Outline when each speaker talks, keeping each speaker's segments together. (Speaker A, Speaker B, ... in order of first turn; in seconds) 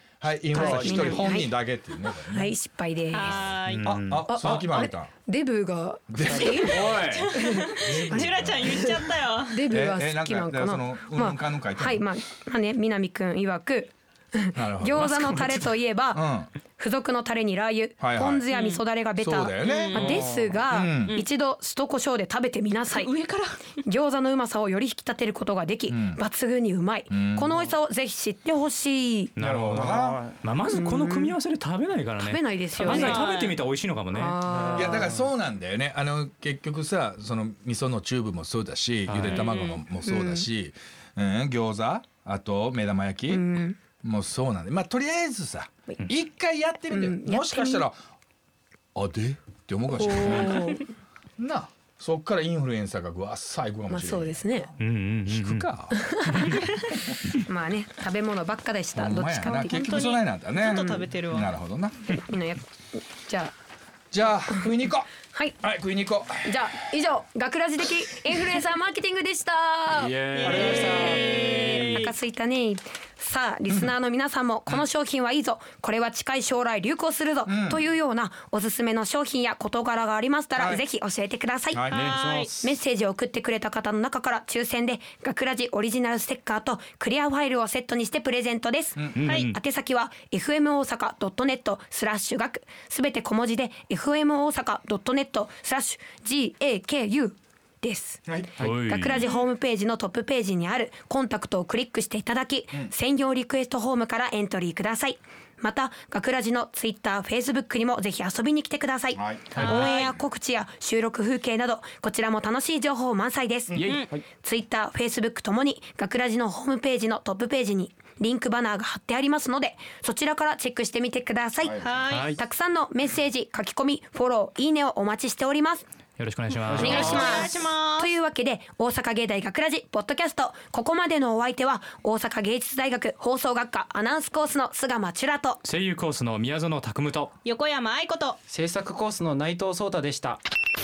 Speaker A: 0.2-2.5, 3.4-5.1, 6.1-9.0, 9.7-12.1, 14.6-16.5, 18.0-18.5, 19.2-21.2, 25.9-26.2, 27.1-27.6, 29.4-30.2, 34.7-43.5, 44.0-48.0, 49.0-50.8, 51.4-54.7, 55.3-56.5, 58.9-62.2, 64.1-65.1, 65.6-66.6, 77.5-77.8, 80.6-80.8, 81.7-82.1, 89.0-89.2, 98.3-98.5, 109.2-110.0, 113.7-114.0, 121.6-122.1
Speaker B: 0.5-1.6, 2.3-3.4, 4.3-8.9, 9.4-23.1, 23.8-29.3, 30.7-31.4, 32.2-33.3, 34.1-35.2, 40.0-40.5, 43.3-43.8, 46.9-47.9, 49.9-50.9, 53.9-54.7, 55.9-56.6, 57.5-60.0, 62.1-63.5, 66.4-81.9, 82.6-125.9, 126.7-135.6
Speaker C: 0.6-1.3, 29.7-30.4, 34.5-35.1, 70.4-72.1, 81.9-82.7, 138.5-140.4
Speaker D: 3.1-4.0, 6.3-9.6, 18.5-18.8, 19.6-20.3, 22.9-23.6, 32.8-33.6, 39.2-39.8, 59.5-61.5, 70.3-72.1, 81.9-82.6, 89.3-89.5, 99.1-99.4, 109.6-110.2, 113.8-114.1, 121.8-122.3, 126.7-128.1, 137.4-138.4
Speaker E: 3.6-4.7, 6.8-7.3, 29.4-34.4, 39.1-39.5, 54.8-55.7, 56.3-56.6, 70.0-71.2, 89.2-89.6, 98.6-99.2, 109.6-109.9, 113.8-114.1, 122.1-122.4, 126.2-127.6, 135.6-137.3